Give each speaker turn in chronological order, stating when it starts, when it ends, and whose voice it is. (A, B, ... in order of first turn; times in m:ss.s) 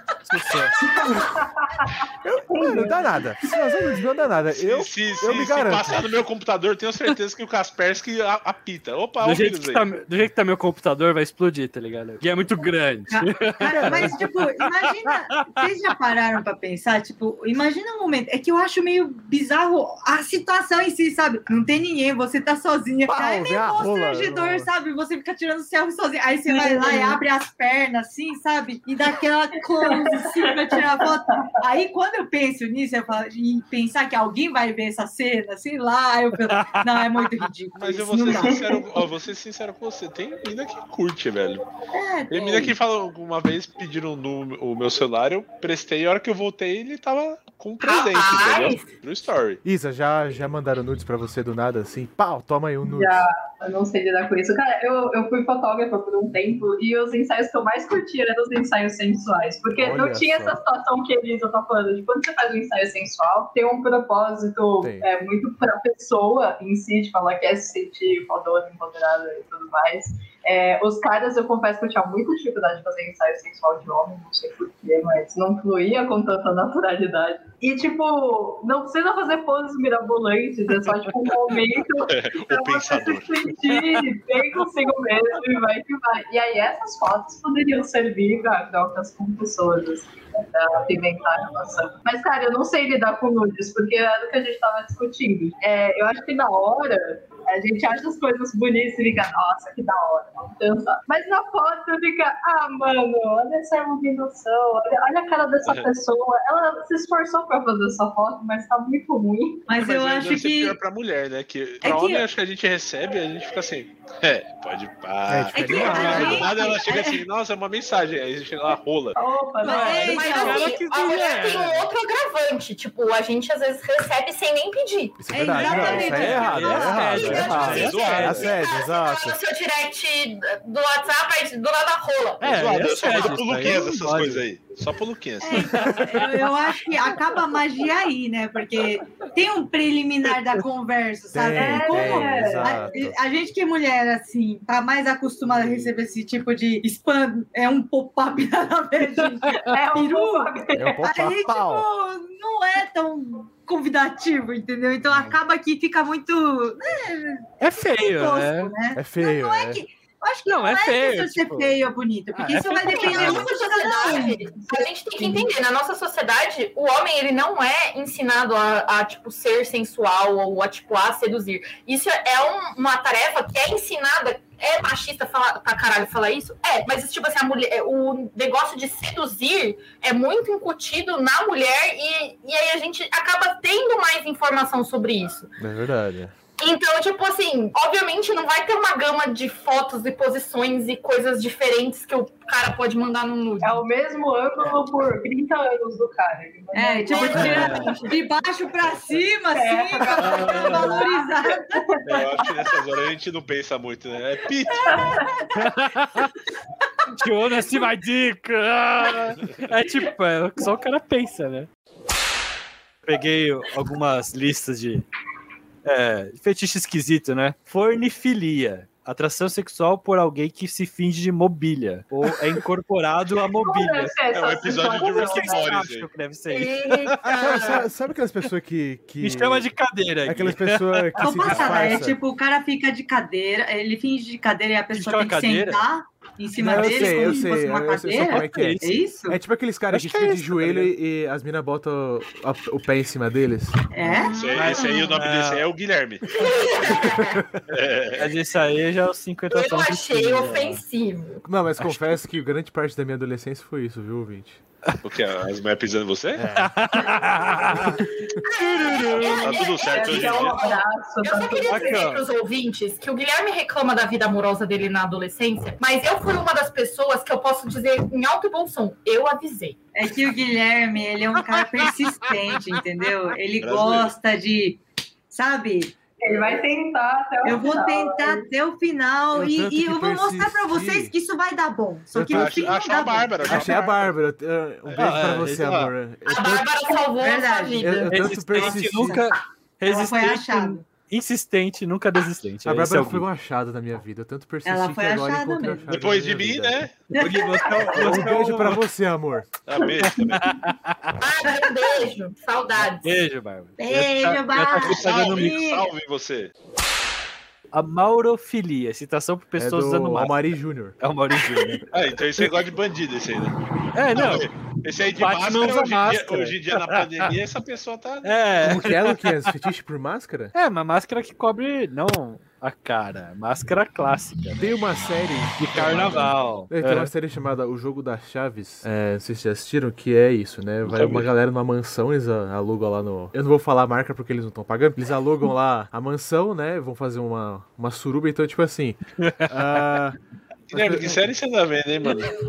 0:00.2-0:00.8 A
0:00.9-0:03.5 B
0:02.2-0:06.0 C
0:04.5-0:09.8 D
0:09.2-0:15.6 A
0:13.1-0:38.6 E
0:13.7-0:14.2 C
0:23.1-0:24.7 C
0:26.5-0:27.2 B
0:29.8-0:31.5 B
0:36.4-0:37.3 A
0:37.8-0:41.6 D
0:38.1-0:38.9 B
0:41.9-0:42.7 E
0:42.3-0:49.6 D
0:47.8-0:48.9 F
0:49.6-0:53.2 C
0:52.8-1:49.7 B
0:59.8-1:00.6 C
1:04.8-1:05.1 C
1:22.0-1:23.3 D
1:23.7-1:24.1 A
1:49.7-1:50.8 E
1:49.8-1:59.2 D
1:51.8-1:52.3 E
1:55.3-1:56.5 C
1:55.5-1:57.2 E
1:59.1-2:00.6 B
1:59.6-2:00.8 E
1:59.6-2:01.9 A
2:00.0-2:05.2 F
2:05.2-2:09.4 C
2:05.3-2:07.0 E
2:05.7-2:06.2 F
2:05.8-2:06.4 D
2:05.9-2:08.5 A
2:07.0-2:12.7 F
2:07.2-2:08.5 D
2:12.4-2:14.4 A
2:12.4-2:16.0 D
2:15.4-2:44.4 E
2:15.5-2:17.2 A
2:21.3-2:23.1 C
2:21.6-2:23.0 B
2:29.2-2:31.0 B
2:30.7-2:31.9 C
2:37.6-2:38.7 A
2:38.9-2:39.8 C
2:40.5-2:41.8 A
2:42.3-2:43.5 A
2:42.8-3:05.5 F
2:44.6-2:45.5 B
3:05.6-3:06.3 C
3:06.6-3:13.8 F
3:13.6-3:18.2 B
3:16.7-3:21.8 E
3:17.2-3:18.1 F
3:17.3-3:17.9 A
3:19.5-3:22.8 B
3:20.1-3:21.0 A
3:22.0-3:25.2 D
3:24.7-3:25.5 B
3:25.5-3:26.3 A
3:27.1-3:31.7 A
3:33.0-3:35.1 A
3:35.8-3:44.2 A
3:43.6-3:45.7 B
3:44.3-3:46.1 D
3:44.8-3:47.9 A
3:46.5-3:47.8 F
3:47.4-3:49.7 C
3:49.2-3:51.9 A
3:50.2-3:52.2 C
3:51.2-3:59.4 E
3:51.6-3:52.0 D
3:54.9-3:55.8 A
3:56.6-3:57.5 A
3:56.6-4:04.2 C
3:58.2-3:59.0 A
3:59.9-4:00.9 A
4:03.9-4:04.8 E
4:04.1-4:05.1 F
4:04.3-4:06.2 D
4:04.5-4:05.7 A
4:06.3-4:07.4 F
4:07.0-4:07.6 C
4:07.7-4:08.3 D
4:08.2-4:10.8 A
4:09.5-4:11.4 F
4:11.4-4:14.6 C
4:11.8-4:12.1 A
4:15.0-4:16.6 D
4:16.3-4:17.0 C
4:16.6-4:19.7 A
4:18.4-4:29.8 F
4:19.2-4:20.6 D
4:19.5-4:22.1 B
4:21.7-4:22.2 A
4:29.9-4:36.6 E
4:33.6-4:34.1 D
4:36.2-4:38.4 B
4:37.4-4:43.9 E
4:39.3-4:41.1 C
4:42.1-4:42.6 C
4:42.2-4:44.1 D
4:43.4-4:46.7 C
4:44.9-4:45.2 D
4:44.9-4:45.9 A
4:46.3-4:48.1 F
4:47.0-4:48.1 E
4:47.8-4:49.2 C
4:48.1-4:53.2 A
4:48.6-4:50.8 E
4:52.6-4:56.8 C
4:54.6-4:55.9 E
4:55.9-4:57.0 D
4:57.1-4:57.9 E
4:57.2-4:58.8 A
4:57.7-4:58.3 D
4:57.9-4:59.5 C
4:59.6-5:00.5 D
5:00.0-5:01.2 A
5:01.2-5:03.1 F
5:01.4-5:02.1 E
5:03.0-5:05.6 A
5:03.8-5:05.9 E
5:04.9-5:06.5 D
5:07.7-5:10.5 A
5:09.6-5:11.0 C
5:11.0-5:11.8 A
5:11.9-5:13.5 D
5:13.9-5:14.5 A
5:14.1-5:18.3 D
5:15.1-5:17.3 A
5:18.2-5:19.5 A
5:18.6-5:20.5 C
5:20.5-5:24.8 A
5:24.6-5:40.2 C
5:25.6-5:27.1 A
5:25.8-5:26.3 D
5:30.9-5:31.3 D
5:39.2-5:39.5 A
5:40.7-5:42.3 D
5:40.7-5:41.2 C